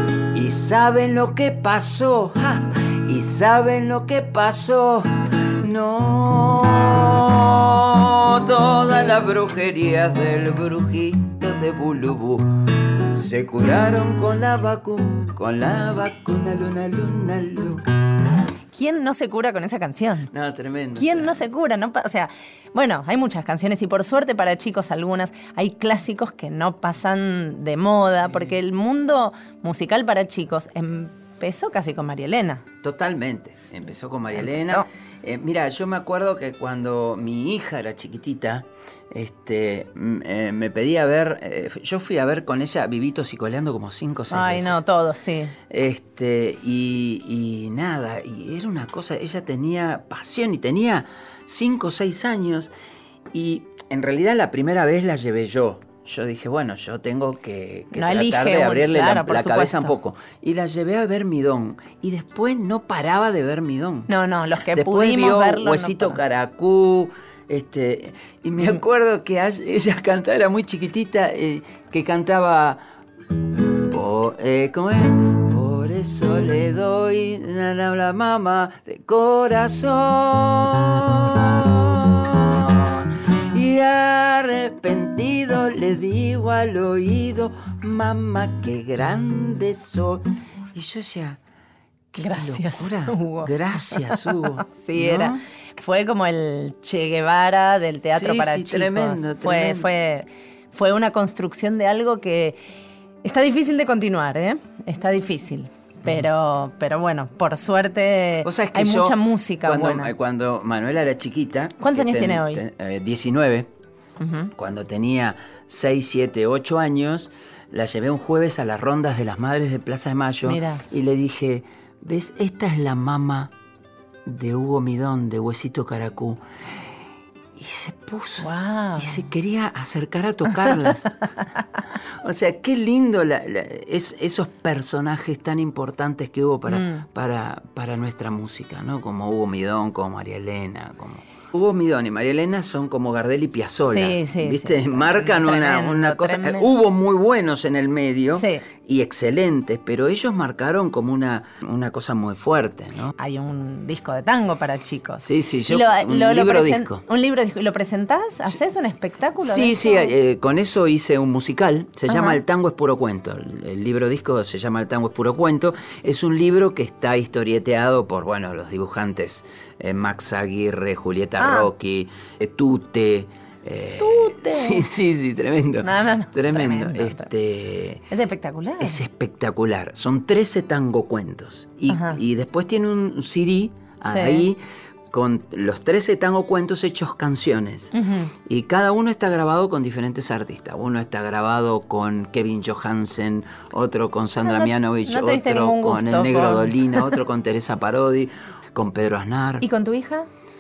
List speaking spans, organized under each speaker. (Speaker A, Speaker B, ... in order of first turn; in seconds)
Speaker A: 0.3-12.6, 13.1-17.9, 20.3-21.4, 32.8-44.8, 45.7-52.7, 53.3-64.1, 64.7-72.8, 73.8-91.4, 92.1-95.4, 98.1-99.9, 108.4-113.7, 114.5-123.5, 124.2-126.4, 127.6-131.2, 132.2-153.2, 155.2-157.0, 159.4-178.1, 178.8-184.6, 185.1-187.9, 188.4-199.7
Speaker B: 18.7-20.3, 21.0-32.6, 34.4-34.9, 44.3-45.5, 57.9-59.9, 64.1-66.2, 92.2-102.6, 103.2-110.1, 111.8-112.6, 114.2-114.5, 120.5-120.8, 128.4-129.2, 136.7-137.1, 143.9-146.7, 148.3-148.6, 153.2-160.1, 162.1-162.4, 171.4-171.7, 174.0-174.8, 175.8-177.3, 178.1-179.0, 181.9-182.2, 184.1-184.5, 187.9-188.3, 194.5-197.2, 199.6-200.3